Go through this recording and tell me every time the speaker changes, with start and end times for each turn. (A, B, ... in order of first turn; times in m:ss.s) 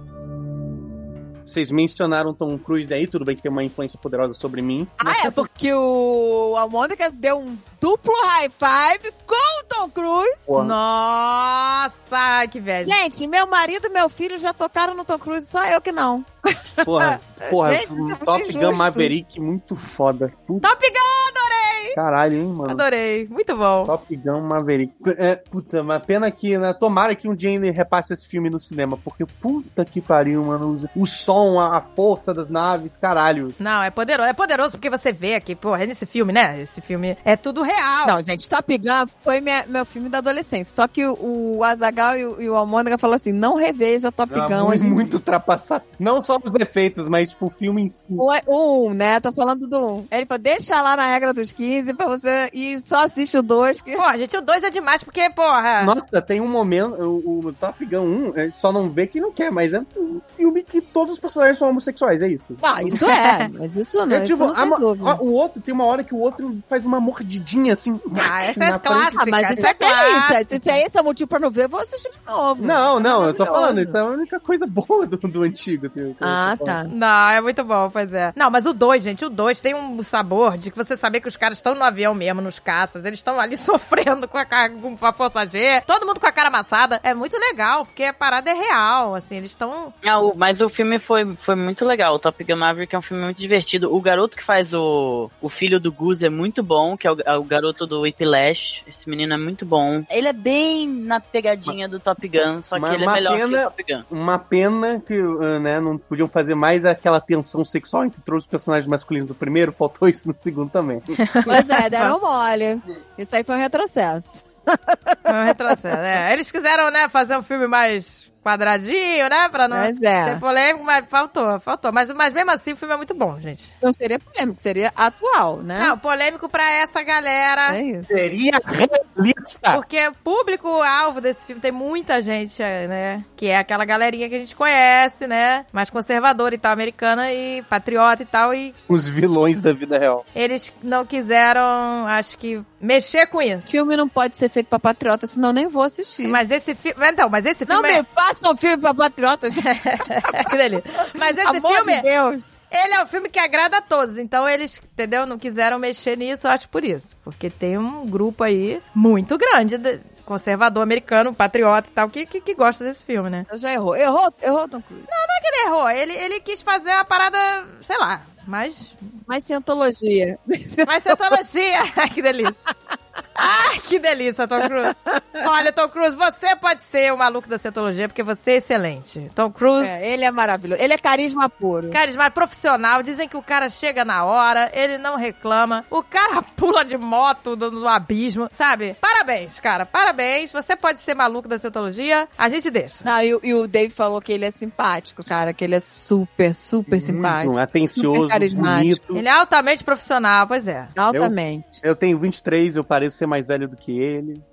0:01.4-0:05.4 A
0:05.0-0:10.5 B
0:10.5-0:10.8 A
0:10.6-0:13.0 C
0:12.8-0:19.1 B
0:16.8-0:20.7 A
0:20.6-0:22.0 C
0:21.9-0:22.8 A
0:22.7-0:23.9 C
0:23.8-0:33.6 A
0:33.6-0:38.2 C
0:38.0-0:45.1 B
0:44.3-0:48.2 A
0:48.2-0:54.0 B
0:54.0-0:55.9 C
0:55.8-1:03.0 A
1:02.6-1:05.2 B
1:03.0-1:03.4 C
1:04.1-1:09.2 A
1:08.2-1:10.8 C
1:09.1-1:14.0 B
1:12.6-1:16.8 A
1:16.2-1:16.9 B
1:16.9-1:29.9 C
1:30.0-1:44.0 D
1:42.7-1:51.2 A
1:51.2-1:52.1 C
1:51.4-1:55.3 B
1:55.3-2:03.7 C
1:59.7-2:00.4 B
2:03.8-2:05.9 B
2:05.8-2:07.8 C
2:07.7-2:08.1 B
2:08.1-2:09.8 A
2:09.7-2:18.7 C
2:18.9-2:20.2 A
2:20.3-2:23.7 C
2:23.7-2:26.4 B
2:26.2-2:28.0 C
2:27.7-2:30.5 B
2:29.5-2:32.1 C
2:31.2-2:32.4 B
2:32.7-2:43.5 C
2:43.5-2:45.1 B
2:45.1-2:49.2 C
2:49.3-2:51.3 B
2:50.8-2:52.6 C
2:53.4-3:00.0 C
2:54.9-2:55.4 B
2:59.8-3:02.0 B
3:01.9-3:13.0 C
3:13.0-3:19.0 B
3:16.9-3:19.2 A
3:19.1-3:20.9 C
3:20.9-3:21.8 B
3:21.1-3:24.4 A